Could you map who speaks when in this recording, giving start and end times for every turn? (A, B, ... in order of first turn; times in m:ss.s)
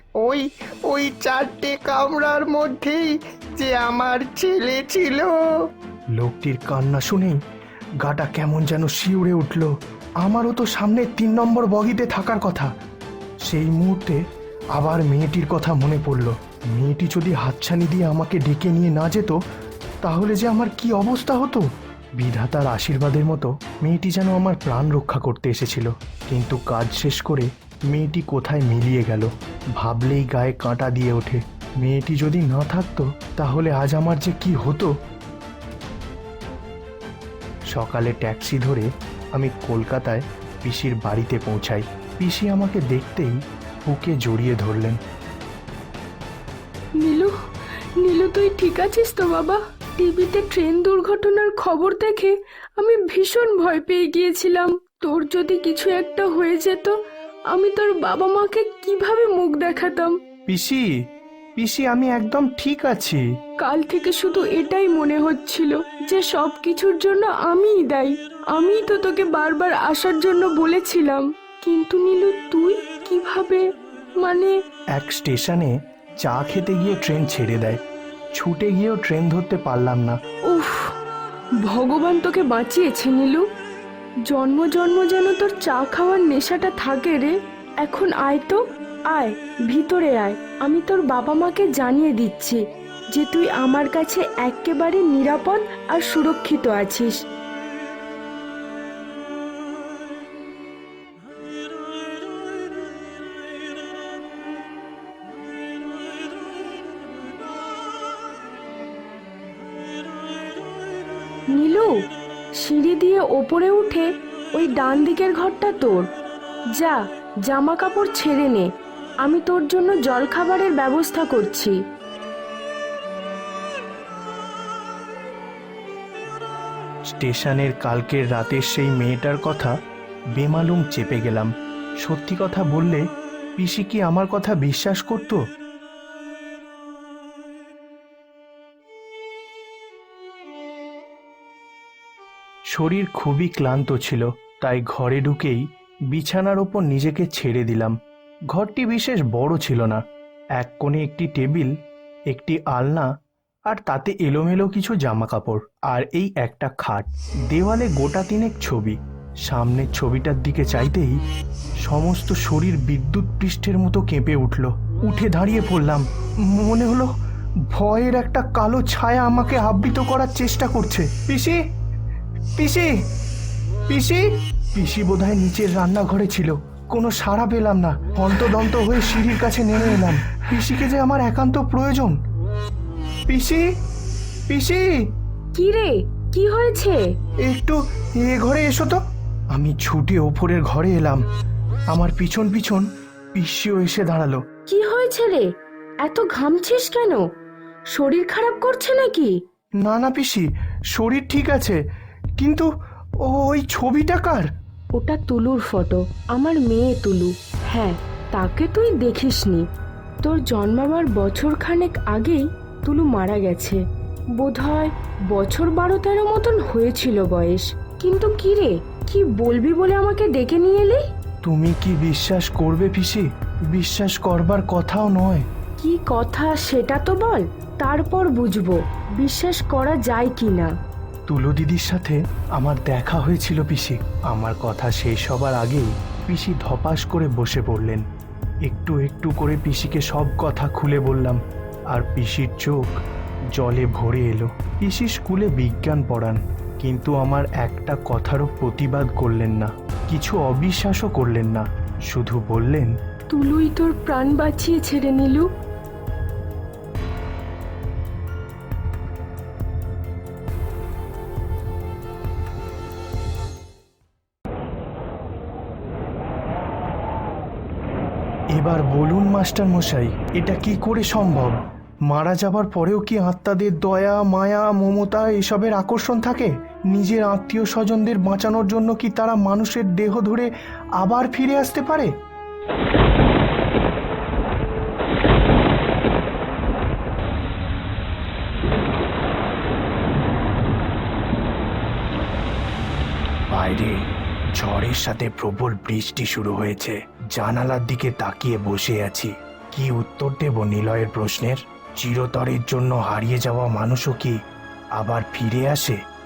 0:00.2-0:05.4 A
0:06.2-0:07.4 B
0:08.0-0:12.7 B
0:13.5-0:14.2 B
0:14.8-0:19.4 B
0:20.0-0:34.9 B
0:37.7-0:45.0 B
0:47.0-0:47.4 C
0:48.0-0:57.0 C
0:57.5-1:00.2 C
1:00.5-1:01.0 B
1:01.6-1:03.2 B
1:03.6-1:14.6 C
1:15.0-1:17.8 B
1:18.3-1:20.2 B
1:20.5-1:21.0 C
1:21.6-1:23.5 C
1:24.3-1:37.2 C
1:51.5-1:52.0 C
1:52.6-1:56.1 C
1:56.8-1:58.7 C
1:59.2-2:01.8 C
2:07.1-2:09.8 B
2:10.4-2:13.0 B
2:13.6-2:15.4 B
2:22.7-2:28.0 B
2:28.5-2:30.0 B
2:30.6-2:31.7 B
2:32.3-2:33.1 B
2:33.7-2:41.2 B
2:41.8-2:47.1 B
2:47.7-2:51.6 B
2:52.6-2:53.0 B
2:53.9-3:02.2 B
3:03.3-3:03.7 B
3:04.5-3:05.1 B
3:05.6-3:07.1 C
3:07.4-3:09.0 B
3:09.5-3:11.2 B
3:11.9-3:14.4 B
3:14.7-3:15.5 C
3:16.0-3:17.3 C
3:17.9-3:19.4 C
3:19.8-3:21.8 B
3:22.4-3:22.7 B
3:23.2-3:24.5 B
3:25.0-3:29.7 C
3:30.2-3:33.8 C
3:34.4-3:41.0 C
3:41.4-3:45.5 B
3:45.8-3:50.7 C
3:51.3-3:58.0 B
3:58.6-4:01.4 B
4:01.9-4:03.0 B
4:03.5-4:12.9 B
4:13.3-4:15.5 C
4:28.5-4:42.1 B
4:53.5-4:54.0 B
4:54.6-5:04.4 B
5:05.0-5:06.0 B